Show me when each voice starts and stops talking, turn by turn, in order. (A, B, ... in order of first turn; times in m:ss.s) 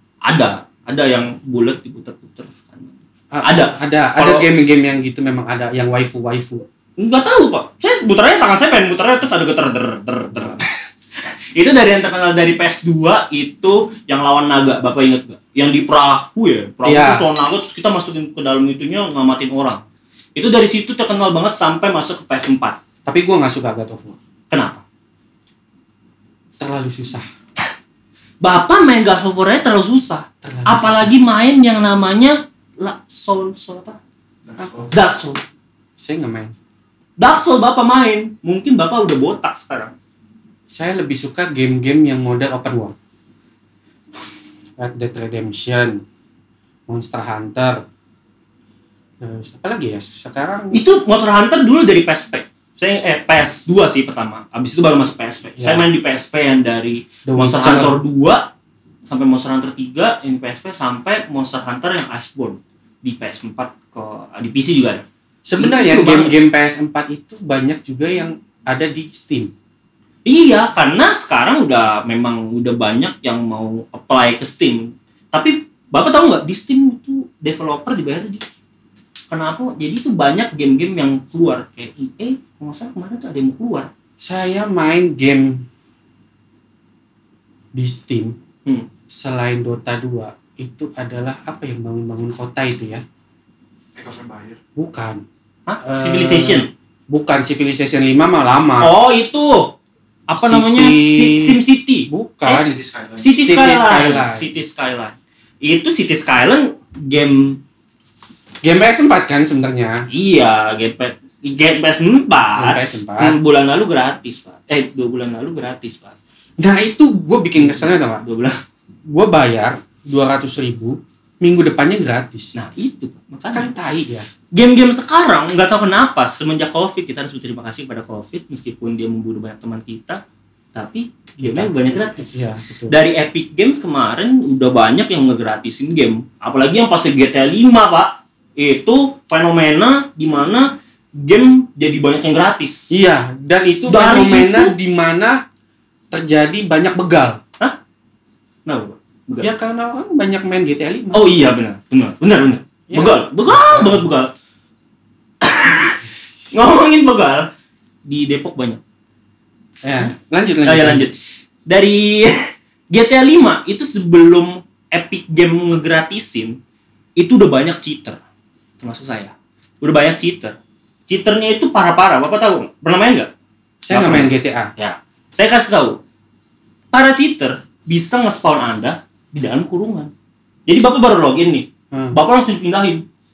0:00.2-0:04.5 A
0:03.3-0:06.7 B
0:07.0-0:10.7 A
0:11.6-0:19.8 A
0:16.8-0:17.3 B
0:20.4-0:22.8 A
0:23.1-0:24.2 B
0:24.5-0:24.8 A
0:26.6-0:27.2 B
0:28.4-0:34.0 A
0:30.4-0:31.1 B
0:34.4-0:34.9 C
0:34.6-0:34.9 B
0:34.9-0:35.4 A
0:36.0-0:36.5 B
0:37.2-0:39.9 A
0:40.7-0:43.0 B
0:44.8-0:46.0 B
0:46.9-0:47.8 B
0:49.2-0:50.8 B
0:50.7-0:58.5 A
0:55.6-0:55.8 B
0:57.3-0:58.0 B
0:59.1-1:05.0 A
1:05.4-1:09.5 B
1:05.6-1:06.4 A
1:10.2-1:18.6 A
1:19.3-1:23.9 A
1:24.2-1:25.7 B
1:27.7-1:28.4 B
1:29.1-1:33.0 B
1:34.0-1:34.6 C
1:34.8-1:35.2 B
1:35.7-1:36.7 A
1:35.8-1:38.9 B
1:38.8-1:39.8 A
1:40.3-1:42.1 A
1:40.4-1:41.6 B
1:42.1-1:42.8 B
1:42.5-1:43.4 C
1:43.2-1:47.6 A
1:43.4-1:44.5 B
1:48.6-1:50.1 B
1:50.1-1:56.2 A
1:52.6-1:53.4 B
1:56.6-1:58.2 B
1:57.6-1:58.6 A
1:59.1-2:02.5 B
2:02.6-2:03.8 A
2:03.5-2:04.3 B
2:04.5-2:10.2 A
2:10.7-2:23.0 A
2:11.4-2:13.0 B
2:22.9-2:25.4 B
2:23.9-2:24.8 A
2:26.1-2:27.4 B
2:28.7-2:29.5 A
2:29.4-2:31.3 B
2:31.1-2:34.3 A
2:32.9-2:34.1 B
2:35.4-2:37.5 A
2:38.0-2:38.8 A
2:39.8-2:41.1 B
2:40.6-2:46.6 A
2:47.2-2:48.2 A
2:48.8-2:50.6 A
2:51.1-2:53.3 A
2:53.8-2:54.7 B
2:53.9-2:56.0 A
2:56.9-3:00.1 A
3:00.7-3:03.0 A
3:01.9-3:02.2 B